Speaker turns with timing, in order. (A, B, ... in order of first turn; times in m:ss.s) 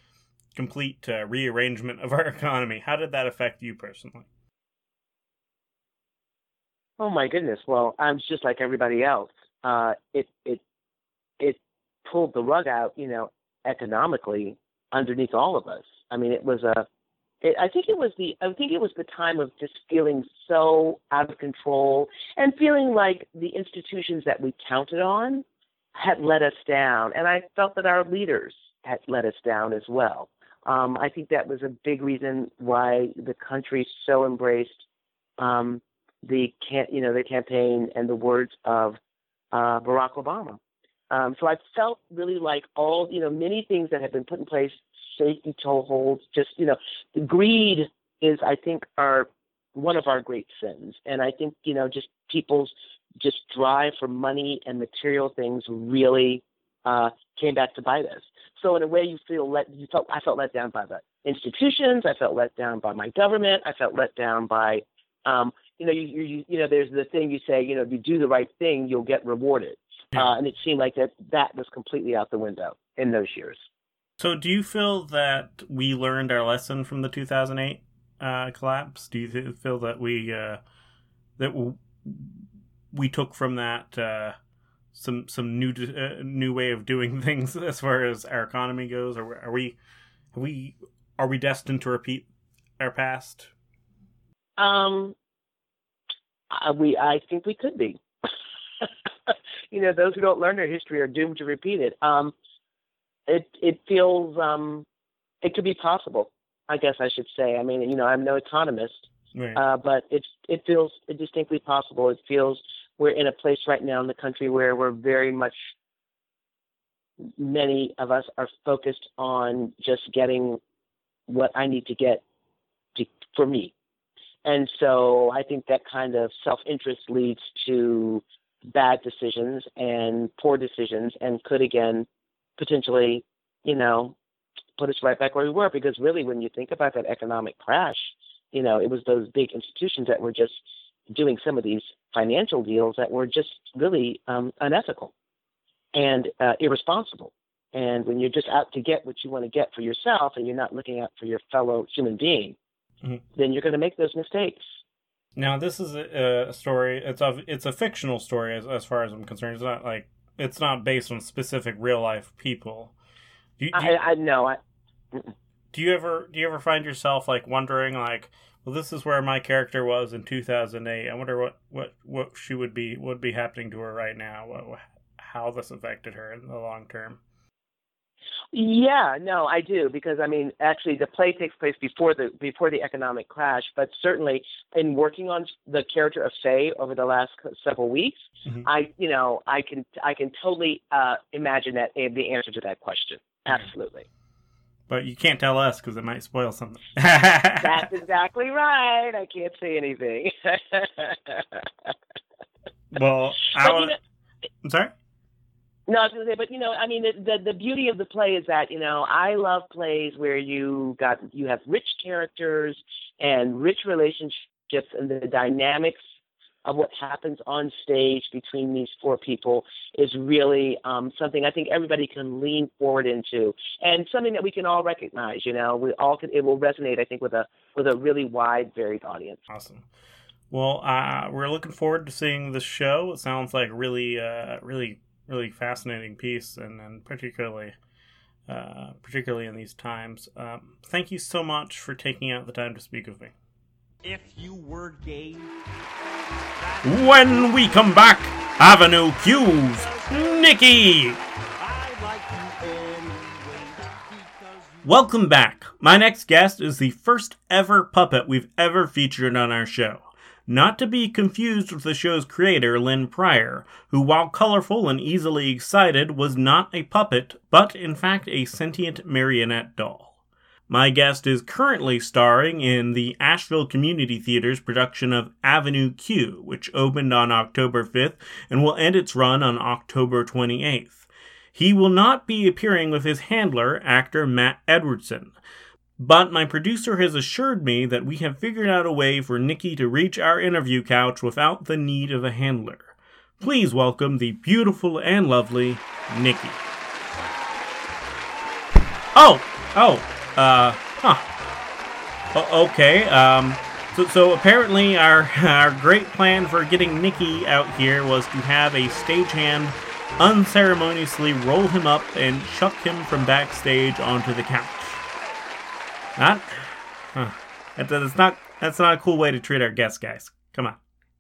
0:00.6-0:04.3 A
0:07.0-0:10.6 B
0:11.4-0:16.9 B
0:17.4-0:25.4 B
0:26.0-0:34.8 B
0:35.4-0:39.0 B
0:39.5-0:40.6 B
0:41.1-1:13.6 B
1:14.2-1:20.6 A
1:21.4-1:22.4 A
1:22.9-1:24.4 A
1:25.0-1:29.8 A
1:30.3-1:32.3 A
1:32.8-1:33.5 A
1:34.6-1:35.2 B
1:36.5-1:38.0 B
1:38.8-1:42.3 B
1:43.3-1:44.8 B
1:45.4-1:55.6 B
1:49.4-1:49.6 A
1:57.3-2:00.6 B
2:01.3-2:02.2 B
2:03.0-2:03.7 B
2:04.4-2:12.1 B
2:12.6-2:14.2 B
2:14.8-2:25.1 B
2:25.9-2:32.6 B
2:33.4-2:34.7 B
2:35.4-2:43.0 A
2:43.6-2:44.0 A
2:43.7-2:44.6 B
2:45.7-2:57.2 A
2:58.5-3:14.1 B
3:14.9-3:17.9 A
3:17.6-3:21.9 B
3:22.9-3:24.0 A
3:23.6-3:23.9 B
3:24.6-3:24.9 A
3:25.9-3:36.0 B
3:36.6-3:49.4 B
3:49.5-3:49.9 A
3:50.5-3:57.8 A
3:58.5-4:03.3 A
4:04.0-4:05.5 C
4:06.6-4:07.5 C
4:06.8-4:11.2 A
4:09.1-4:10.4 C
4:11.6-4:15.0 C
4:14.8-4:30.1 A
4:30.7-4:45.4 A
4:46.0-4:56.6 A
4:59.2-5:01.3 A
5:02.3-5:15.0 A
5:16.2-5:20.8 A